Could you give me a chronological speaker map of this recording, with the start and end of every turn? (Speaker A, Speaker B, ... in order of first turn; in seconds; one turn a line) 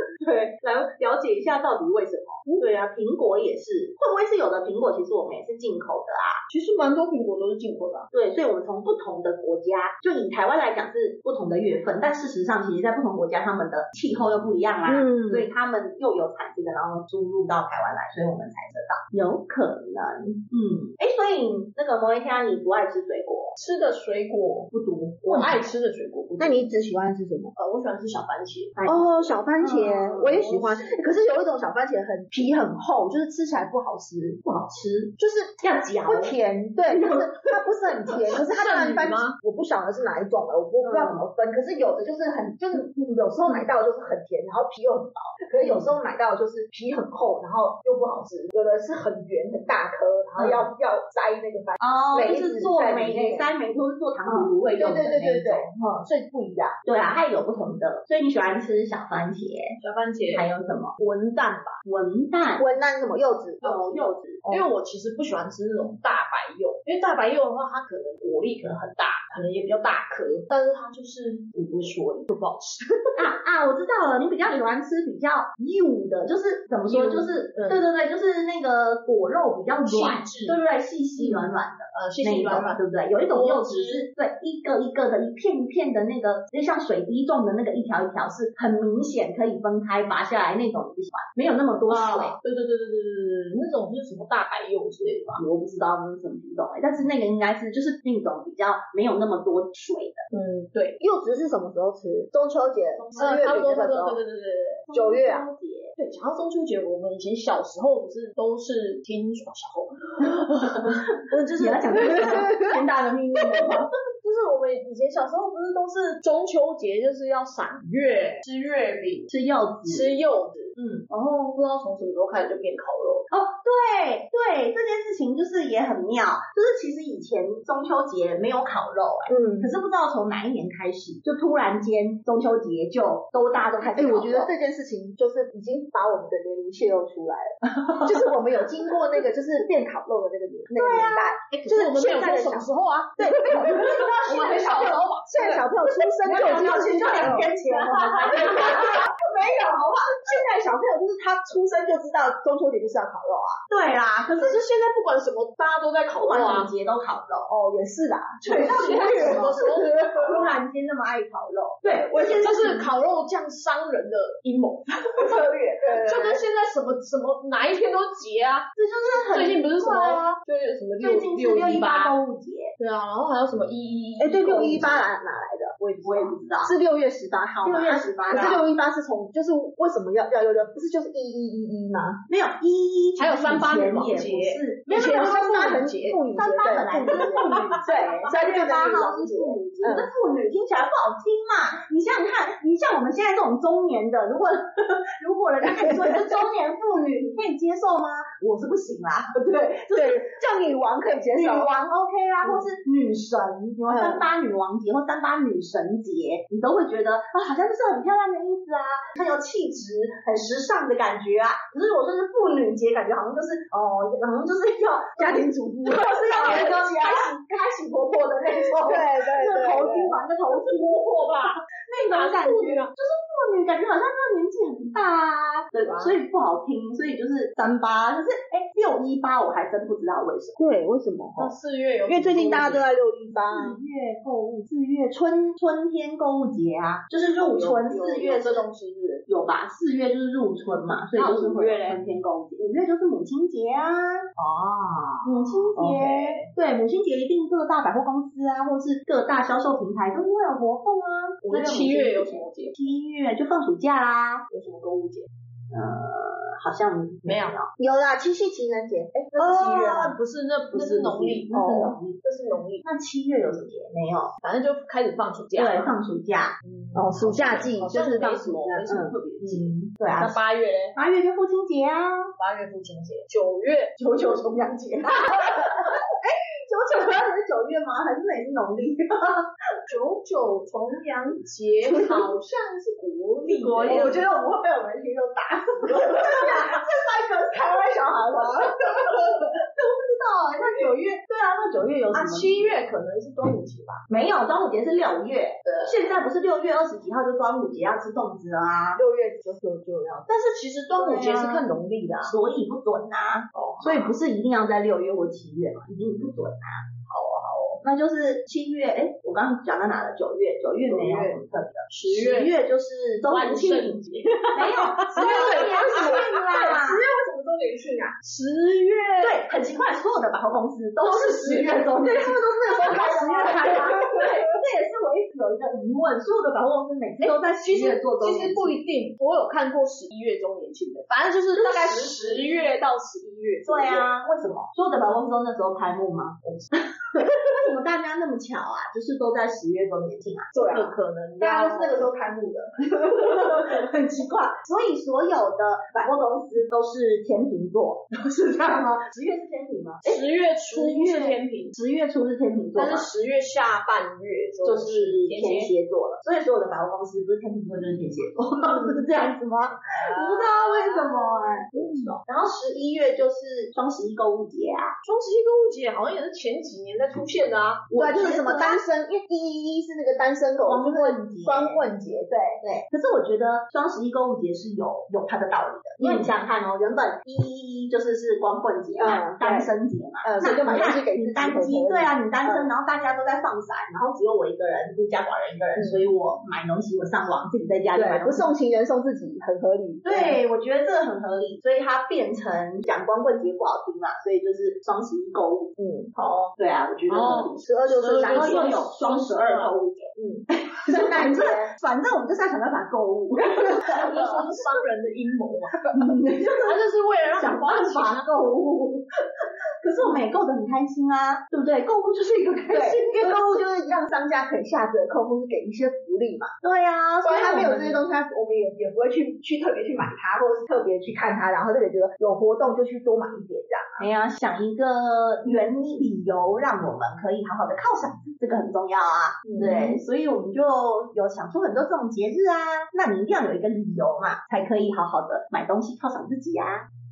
Speaker A: 0.2-6.4
Speaker B: 6.5-8.1
Speaker A: 8.1-23.5
Speaker C: 14.8-15.5
Speaker B: 23.6-26.6
Speaker A: 24.7-25.6
Speaker C: 26.4-27.5
Speaker B: 27.6-28.8
Speaker A: 28.8-30.0
Speaker C: 28.9-34.4
Speaker B: 30.0-31.0
Speaker A: 34.4-36.4
Speaker C: 35.2-53.5
Speaker A: 36.9-37.4
Speaker B: 38.3-39.4
Speaker A: 40.8-41.3
Speaker A: 45.6-46.0
Speaker A: 50.4-50.7
Speaker A: 51.8-55.7
Speaker C: 54.2-56.8
Speaker A: 56.8-59.8
Speaker B: 59.8-61.8
Speaker A: 60.3-61.0
Speaker A: 61.8-62.7
Speaker C: 62.6-63.8
Speaker B: 63.6-73.3
Speaker A: 63.6-64.4
Speaker A: 73.2-92.4
Speaker B: 76.8-77.9
Speaker B: 79.8-80.6
Speaker B: 81.2-84.1
Speaker B: 91.9-95.4
Speaker A: 95.4-100.2
Speaker B: 100.3-101.0
Speaker C: 101.0-104.2
Speaker A: 102.9-103.9
Speaker B: 103.2-105.0
Speaker A: 104.9-106.0
Speaker C: 104.9-105.5
Speaker B: 106.0-112.6
Speaker A: 110.2-113.9
Speaker B: 114.2-119.3
Speaker A: 119.3-120.1
Speaker B: 119.8-123.2
Speaker A: 120.8-121.1
Speaker A: 123.3-134.5
Speaker C: 129.3-129.7
Speaker C: 133.7-141.5
Speaker A: 137.8-138.1
Speaker A: 140.7-142.5
Speaker B: 141.2-145.7
Speaker C: 142.1-153.6
Speaker A: 146.2-149.0
Speaker B: 146.3-147.5
Speaker B: 148.0-149.0
Speaker A: 153.7-154.6
Speaker B: 154.3-156.7
Speaker A: 156.2-157.5
Speaker C: 157.5-160.5
Speaker B: 158.4-160.6
Speaker A: 158.4-159.6
Speaker A: 160.2-162.9
Speaker B: 162.1-172.2
Speaker C: 165.2-166.4
Speaker A: 168.8-170.3
Speaker A: 171.0-172.7
Speaker B: 172.8-175.0
Speaker C: 174.2-175.8
Speaker B: 175.8-176.4
Speaker A: 176.0-176.7
Speaker C: 176.6-182.2
Speaker A: 177.6-178.6
Speaker A: 182.3-185.1
Speaker B: 183.2-186.2
Speaker C: 184.9-190.1
Speaker A: 186.3-200.3
Speaker B: 187.1-188.2
Speaker C: 199.9-201.8
Speaker A: 201.3-230.6
Speaker C: 203.9-204.2
Speaker C: 215.2-217.5
Speaker C: 218.3-220.2
Speaker B: 220.5-222.9
Speaker B: 225.9-226.2
Speaker C: 230.6-231.6
Speaker B: 231.4-233.0
Speaker C: 232.1-233.8
Speaker A: 233.3-238.7
Speaker B: 237.3-239.2
Speaker A: 239.3-244.3
Speaker B: 241.1-242.0
Speaker B: 244.4-246.5
Speaker A: 245.2-254.5
Speaker B: 251.5-252.8
Speaker B: 254.5-255.3
Speaker A: 255.7-257.7
Speaker B: 257.2-257.6
Speaker C: 257.8-260.1
Speaker B: 259.4-261.5
Speaker A: 259.5-260.0
Speaker A: 260.7-262.2
Speaker C: 261.5-262.0
Speaker B: 262.0-262.8
Speaker A: 262.8-264.3
Speaker B: 264.4-265.9
Speaker A: 265.6-266.6
Speaker B: 266.6-271.0
Speaker C: 266.9-268.4
Speaker A: 268.4-270.4
Speaker A: 270.9-272.3
Speaker B: 272.4-273.9
Speaker A: 274.0-279.5
Speaker B: 279.9-284.3
Speaker A: 283.4-284.2
Speaker C: 283.9-289.1
Speaker A: 285.8-286.8
Speaker A: 290.0-292.6
Speaker B: 292.1-294.0
Speaker A: 294.1-299.0
Speaker B: 295.6-296.0
Speaker C: 299.0-300.3
Speaker B: 300.3-302.4
Speaker A: 300.9-306.9
Speaker B: 303.5-304.2
Speaker B: 307.1-307.8
Speaker A: 307.8-317.0
Speaker B: 310.9-311.4
Speaker B: 311.9-312.6
Speaker B: 313.2-319.4
Speaker C: 315.1-318.1
Speaker A: 319.2-328.8
Speaker C: 321.0-324.4
Speaker B: 321.2-321.6
Speaker B: 327.6-334.1
Speaker A: 331.5-332.7
Speaker A: 333.6-340.6
Speaker B: 340.5-342.1
Speaker C: 340.6-342.7
Speaker A: 342.8-353.1
Speaker B: 350.0-351.8
Speaker B: 352.8-355.7
Speaker A: 354.6-364.9
Speaker B: 360.0-362.2
Speaker B: 365.0-368.8
Speaker A: 367.9-368.8
Speaker C: 368.0-372.6
Speaker A: 370.6-371.9
Speaker A: 372.6-388.5
Speaker C: 376.0-376.3
Speaker C: 379.0-382.7
Speaker C: 385.8-386.0
Speaker C: 387.9-390.4
Speaker A: 390.0-395.7
Speaker C: 395.8-396.5
Speaker A: 396.6-404.6
Speaker B: 397.1-399.8
Speaker C: 397.6-398.8
Speaker C: 400.2-401.7
Speaker B: 403.6-408.3
Speaker A: 405.8-413.6
Speaker C: 412.7-416.5
Speaker A: 416.6-418.0
Speaker C: 417.2-424.1
Speaker B: 417.5-417.8
Speaker A: 424.0-436.9
Speaker C: 429.5-430.0